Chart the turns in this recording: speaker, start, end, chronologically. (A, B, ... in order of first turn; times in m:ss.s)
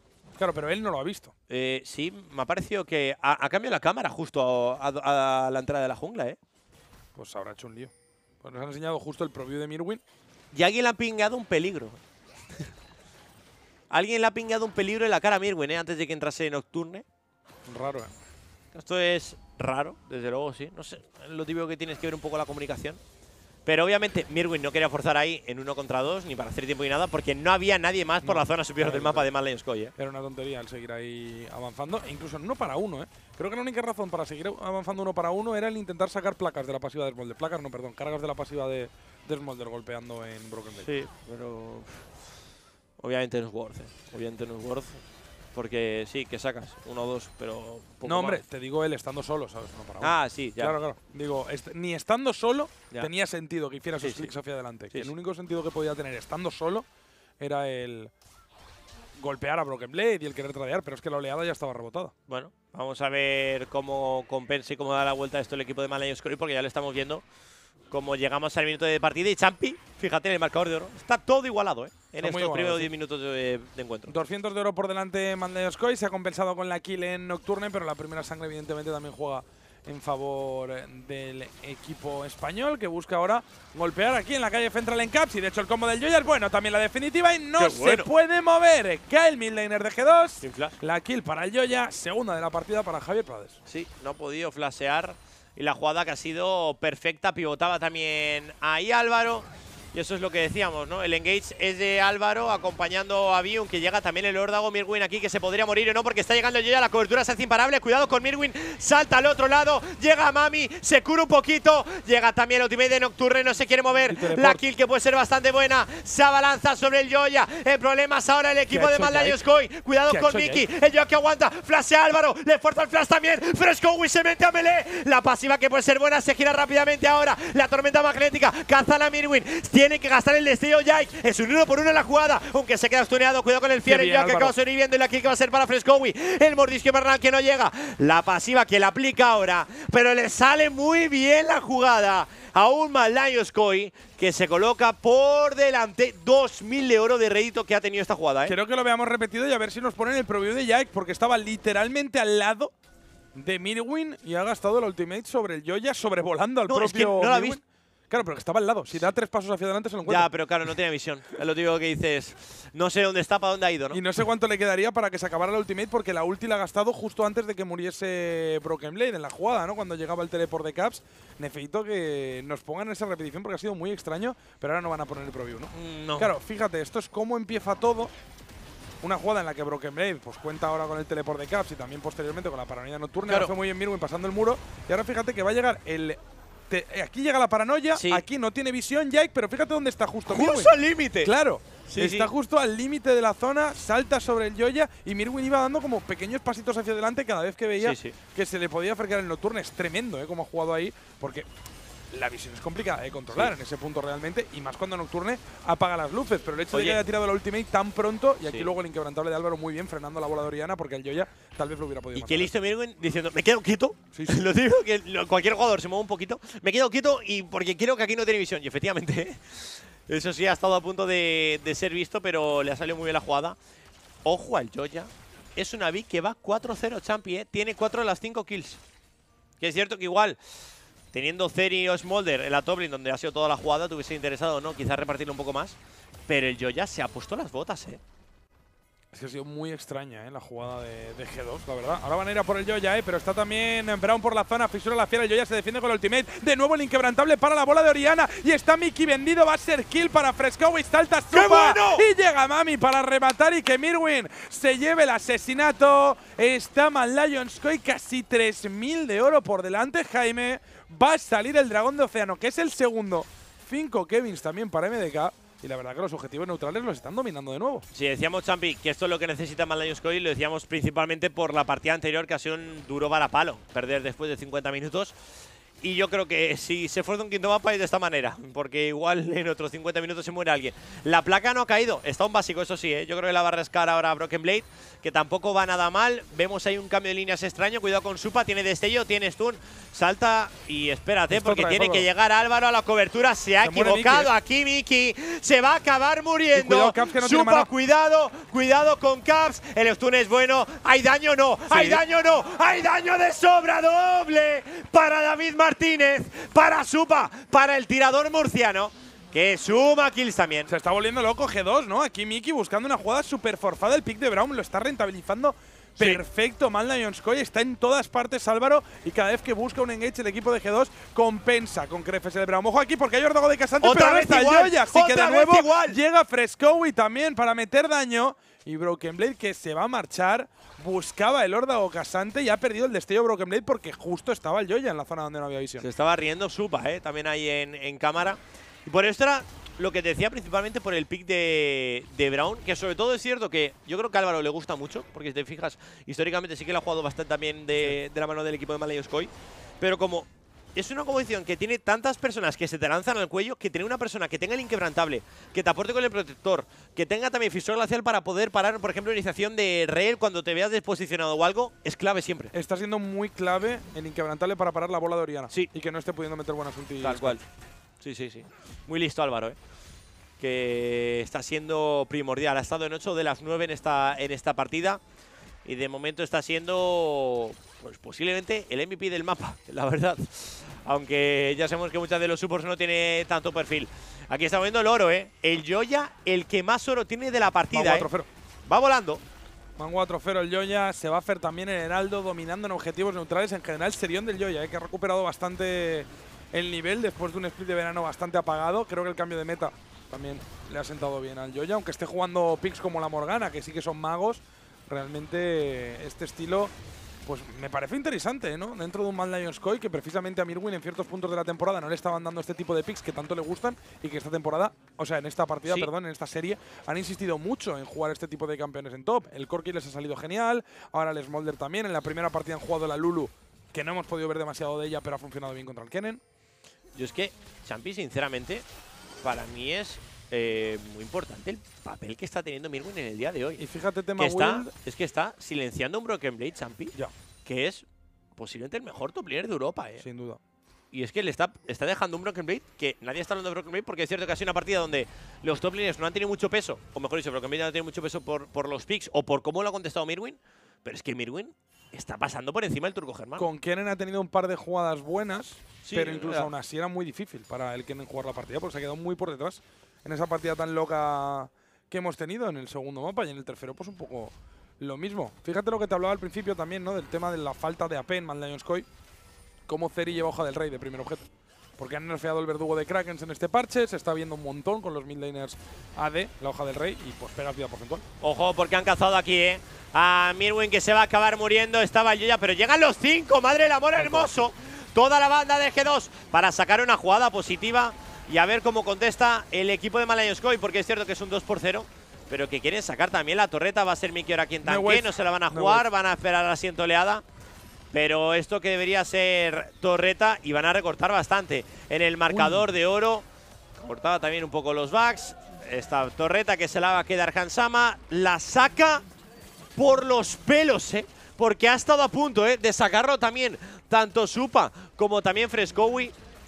0:00.4-0:01.3 A
0:01.5-0:06.4 B
0:07.2-0:07.9 A
0:08.4-0:10.0 A
0:10.5-0:12.0 B
0:13.9-0:17.0 B
0:17.7-0:18.1 A
0:18.7-0:23.0 B
0:23.7-0:29.9 B
0:28.2-0:29.3 A
0:30.0-0:40.9 A
0:40.8-0:42.1 B
0:43.0-0:45.0 B
0:45.6-0:48.4 B
0:48.0-0:56.9 A
0:50.0-0:50.8 B
0:54.0-0:54.3 B
0:57.4-0:58.1 A
0:59.2-1:02.1 A
1:02.3-1:07.2 B
1:07.9-1:14.2 B
1:12.2-1:12.9 A
1:14.1-1:33.6 A
1:27.6-1:28.1 B
1:30.4-1:30.8 B
1:33.7-2:28.6 B
1:54.1-1:54.6 A
1:58.7-1:59.4 A
2:00.1-2:00.6 A
2:13.8-2:14.6 A
2:28.5-2:32.7 A
2:33.4-2:40.3 A
2:36.7-2:37.6 B
2:40.0-2:44.0 B
2:43.9-2:58.1 A
2:55.7-2:56.3 B
2:59.0-3:06.2 A
3:03.3-3:03.5 B
3:06.7-3:21.5 A
3:08.0-3:08.2 B
3:10.3-3:11.3 B
3:11.9-3:12.3 B
3:17.8-3:18.2 B
3:22.1-3:32.5 A
3:26.7-3:27.0 B
3:32.1-3:43.6 B
3:34.1-3:34.5 A
3:44.2-3:48.8 B
3:49.6-3:50.4 B
3:51.1-3:55.8 B
3:56.3-3:58.0 B
3:59.1-4:27.9 A
4:11.3-4:12.0 B
4:27.9-4:35.2 B
4:35.8-5:10.7 B
4:51.3-4:52.1 A
4:53.6-4:54.3 A
4:56.5-4:57.7 A
5:01.7-5:02.0 A
5:10.7-5:35.9 A
5:23.8-5:26.0 B
5:35.8-6:02.5 B
6:02.5-6:07.4 A
6:07.0-6:07.4 B
6:08.0-6:09.6 B
6:10.4-6:15.0 B
6:15.6-6:28.1 B
6:27.7-6:28.3 A
6:28.7-6:29.2 B
6:29.8-6:46.7 A
6:47.2-7:06.2 A
7:07.0-7:08.6 B
7:09.2-7:13.6 B
7:13.6-7:14.7 A
7:14.2-7:17.9 B
7:18.4-7:20.1 B
7:20.0-7:20.4 A
7:20.9-7:33.5 B
7:33.4-7:48.9 A
7:35.8-7:36.5 B
7:49.7-7:58.0 A
7:58.2-8:17.2 B
8:04.0-8:04.4 A
8:14.6-8:15.9 A
8:17.9-8:23.3 B
8:22.3-8:22.7 A
8:23.8-8:29.0 B
8:29.8-8:36.1 B